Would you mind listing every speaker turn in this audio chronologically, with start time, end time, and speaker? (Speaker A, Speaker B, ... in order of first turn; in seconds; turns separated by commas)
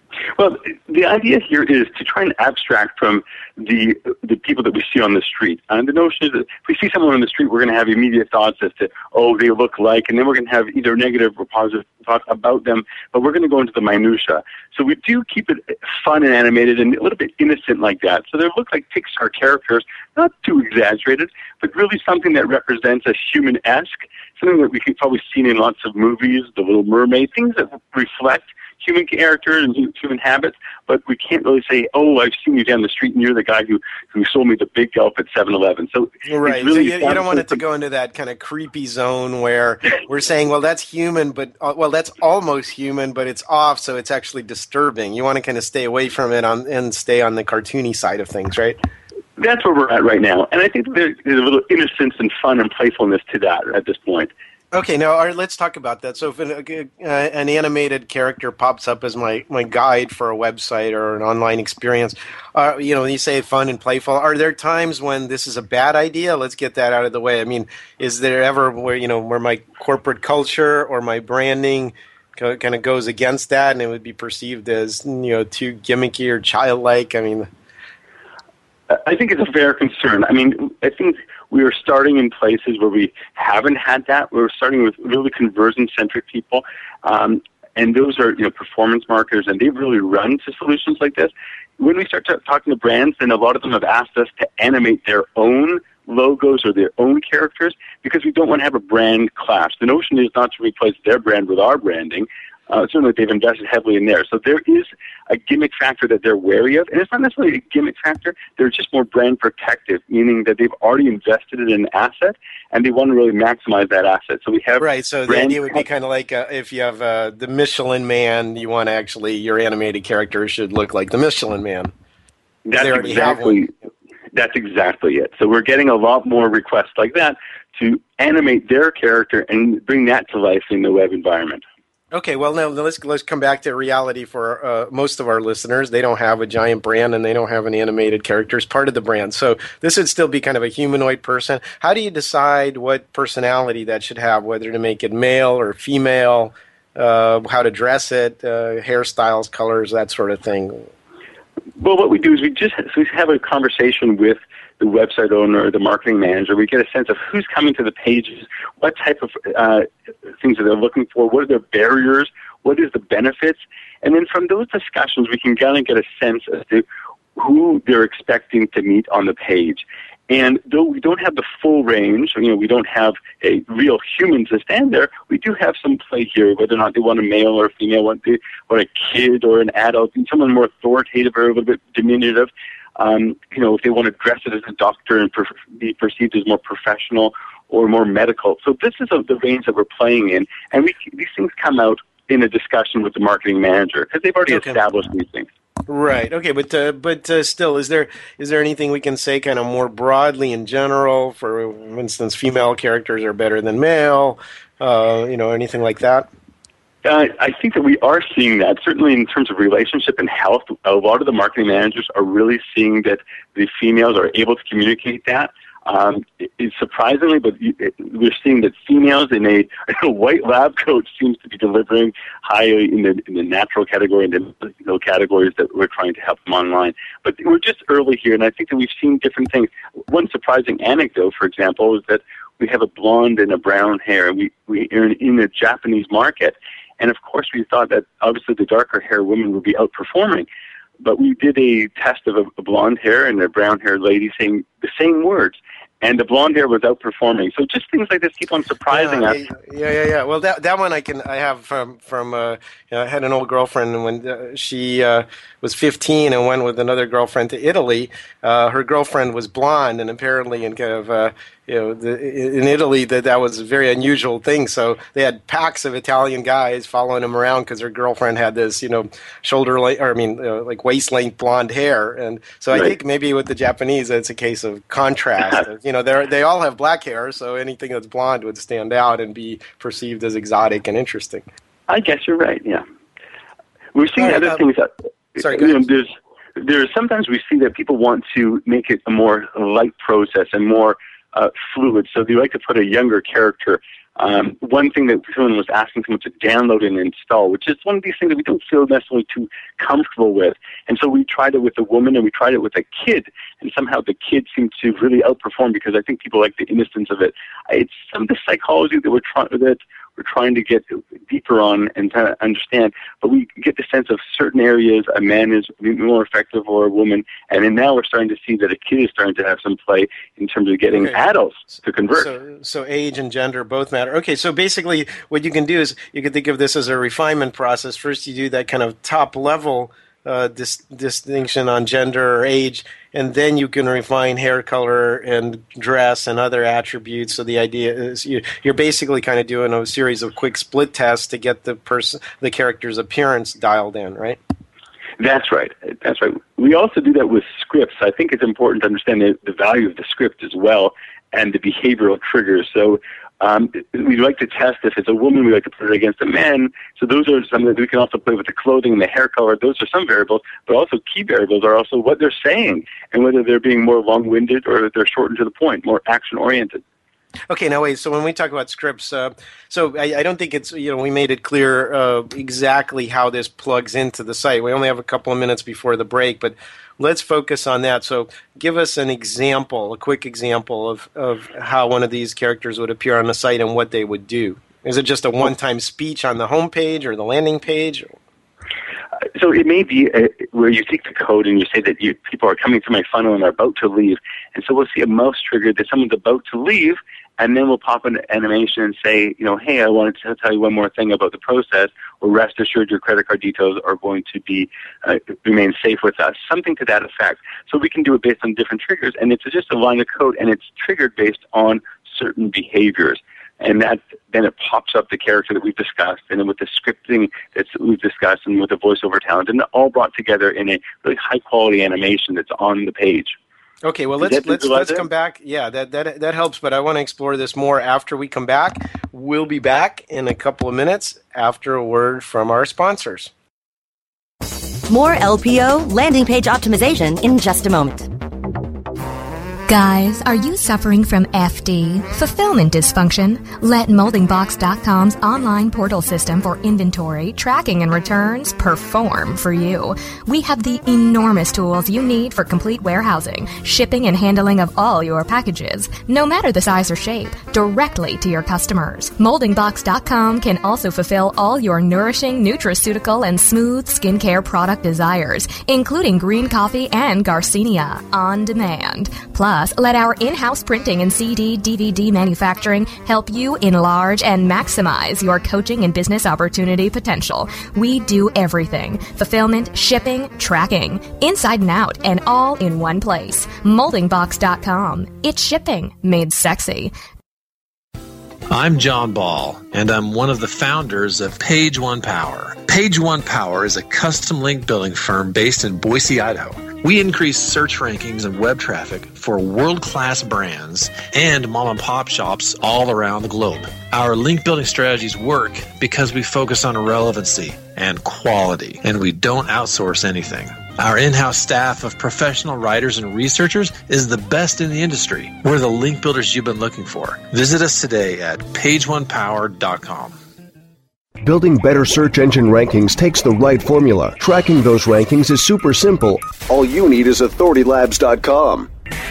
Speaker A: 0.4-37.6, Speaker B: 36.3-48.8, Speaker A: 49.4-54.3, Speaker B: 54.7-77.5, Speaker A: 78.9-115.8, Speaker B: 114.8-121.9, Speaker A: 122.7-123.7, Speaker B: 122.8-123.6, Speaker A: 124.3-131.6, Speaker B: 132.1-150.9, Speaker A: 151.8-159.9, Speaker A: 160.4-166.8, Speaker A: 167.4-195.5, Speaker B: 194.5-194.8, Speaker B: 195.9-206.3, Speaker A: 207.0-240.5, Speaker A: 241.0-249.4, Speaker B: 248.9-281.5, Speaker A: 281.9-282.8, Speaker A: 283.9-322.3, Speaker B: 284.2-284.6, Speaker B: 285.4-285.8, Speaker B: 320.9-321.2, Speaker B: 322.2-344.4, Speaker A: 345.2-366.8, Speaker B: 367.5-388.2, Speaker A: 389.4-423.4, Speaker B: 423.8-433.3, Speaker A: 424.2-425.1, Speaker C: 434.9-438.1, Speaker D: 439.7-486.9, Speaker E: 488.5-520.1, Speaker F: 521.2-528.7